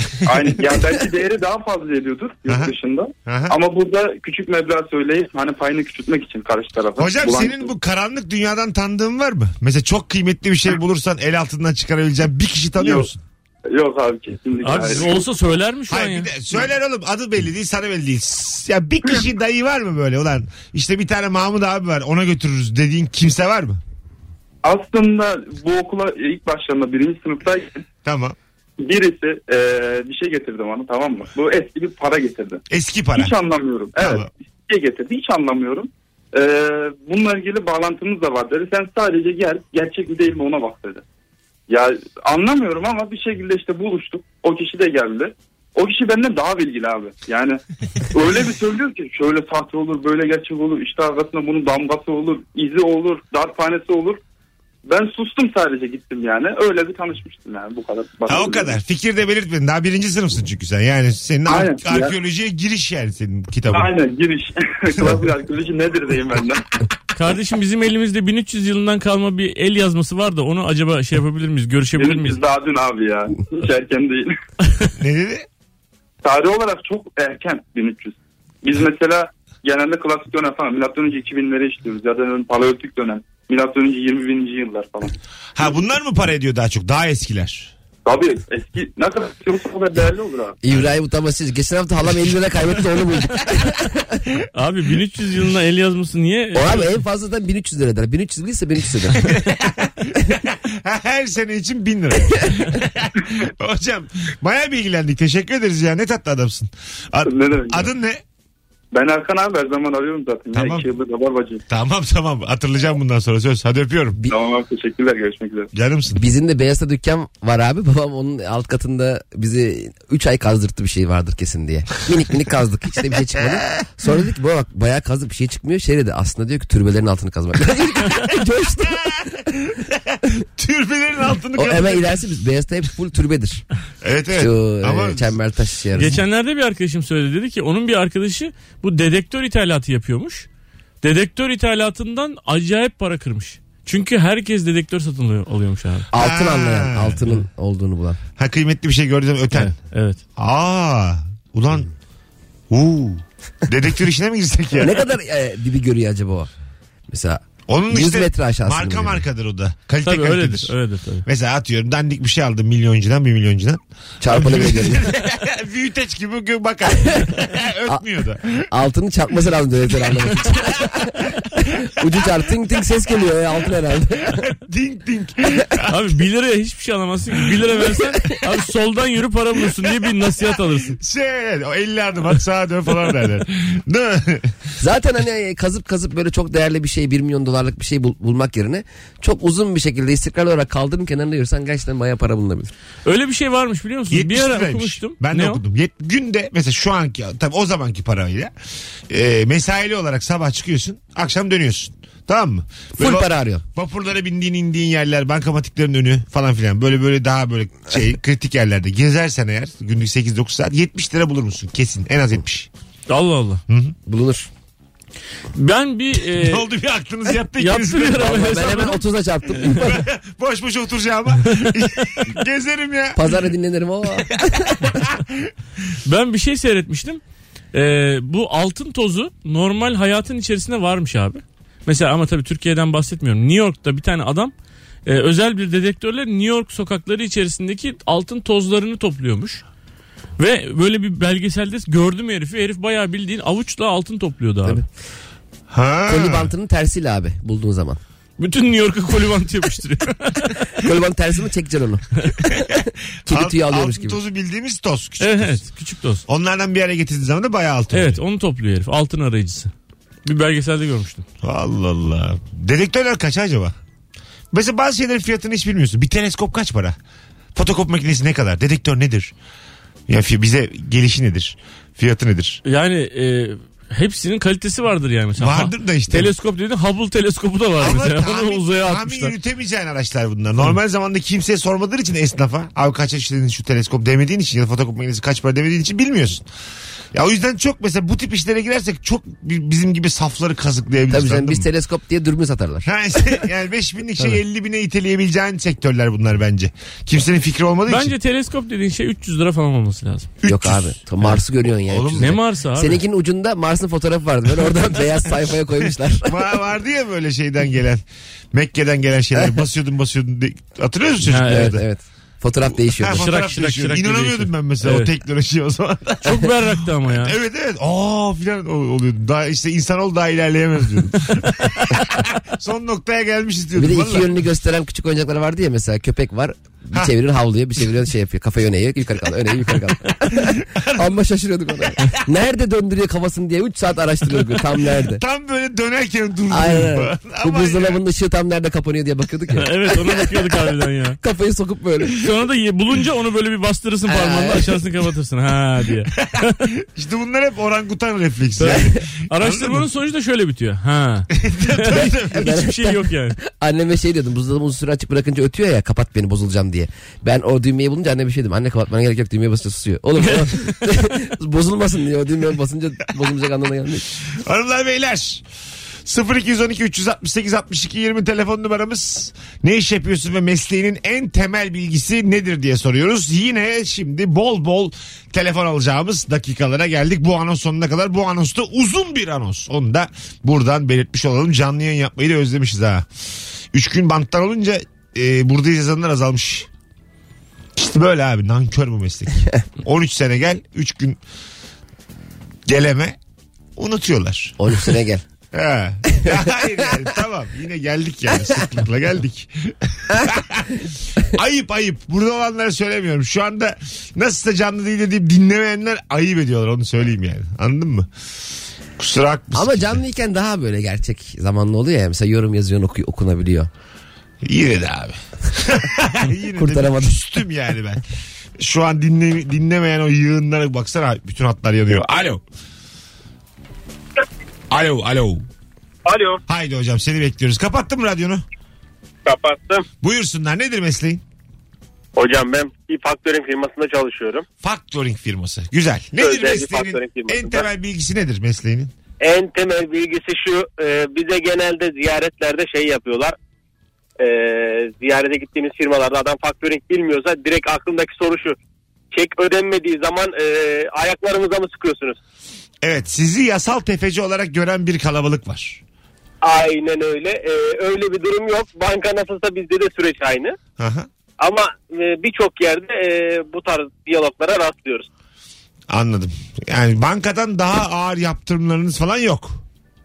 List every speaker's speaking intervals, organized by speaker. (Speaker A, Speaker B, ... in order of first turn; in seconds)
Speaker A: 0.2-7.7, 12.8-13.1, 13.7-15.3, 24.6-27.9, 28.8-32.6, 33.1-41.0, 41.7-47.6, 48.1-54.2, 54.9-58.8, 61.5-62.1, 63.7-66.6, 72.0-74.3, 76.2-85.1, 88.0-90.6, 107.2-107.9, 108.9-111.6, 114.3-115.7
Speaker B: 2.5-2.7, 3.3-3.5, 7.0-13.2, 15.9-23.8, 28.0-28.4, 32.7-33.3, 34.0-34.3, 58.3-63.9, 75.0-75.5, 85.6-87.7, 99.2-108.2, 110.5-110.9, 111.7-114.2, 115.7-116.2, 123.4-123.6, 128.8-132.1, 134.0-135.4, 146.1-147.2, 148.4-149.8, 150.4-151.9, 152.7-155.0, 157.7-160.7, 161.3-168.7, 174.3-176.2, 177.5-177.8, 180.9-184.5, 194.1-198.5, 199.1-212.7, 213.7-213.9, 216.4-218.9, 219.6-223.4, 224.2-225.5, 245.7-246.5, 252.6-255.6, 256.3-258.2, 261.4-263.8, 264.5-267.0, 267.6-269.3, 270.1-272.6, 275.4-276.3, 277.8-286.4, 287.1-291.7, 292.9-298.1, 300.4-302.4, 306.2-311.8, 312.8-316.6, 317.1-324.3, 330.4-331.1, 335.2-338.0, 346.8-349.9, 351.4-352.5, 364.3-365.4, 366.1-383.1, 383.7-386.7, 387.8-391.2, 392.7-393.2, 393.8-394.6, 395.5-408.1, 409.0-410.0, 414.4-418.0, 418.6-422.4, 424.7-425.5, 426.5-428.4, 430.0-431.2, 434.6-438.9, 452.8-455.8, 460.8-461.1, 465.9-469.6
Speaker C: 14.6-16.3, 67.1-72.4, 94.5-96.9, 136.0-140.5, 141.0-146.1, 149.5-150.2, 160.0-161.3, 175.9-181.0, 193.1-195.6, 213.1-213.6, 215.6-216.7, 217.6-219.0, 221.6-222.0, 226.1-227.2, 227.7-234.5, 235.1-239.6, 240.4-244.8, 248.4-250.7, 255.2-256.2, 257.9-259.7, 260.2-261.3, 272.6-279.3, 297.9-300.4, 302.2-303.0, 311.2-311.7, 313.1-315.1, 316.2-317.4, 339.6-341.2, 342.1-346.7, 348.6-353.4
Speaker D: 90.6-94.2, 96.5-99.3, 116.2-129.0, 131.6-133.6, 134.3-136.2, 146.1-148.2, 154.8-156.5, 157.1-159.2, 164.2-165.1, 166.9-167.3, 168.7-174.4, 184.8-192.7, 203.0-203.6, 214.1-214.5, 218.2-220.0, 223.2-224.9, 246.1-248.0, 250.8-254.2, 291.1-292.9, 300.4-306.3, 311.5-313.3, 323.8-335.2, 336.5-340.3, 341.2-342.2, 344.1-344.8, 348.7-349.0, 352.3-364.1, 394.6-395.2, 409.5-413.7, 416.6-417.1
Speaker E: 426.1-426.4, 429.2-429.9, 432.1-434.4, 436.2-437.7, 439.2-443.4, 444.2-448.6, 449.1-452.2, 456.4-460.6, 461.4-465.1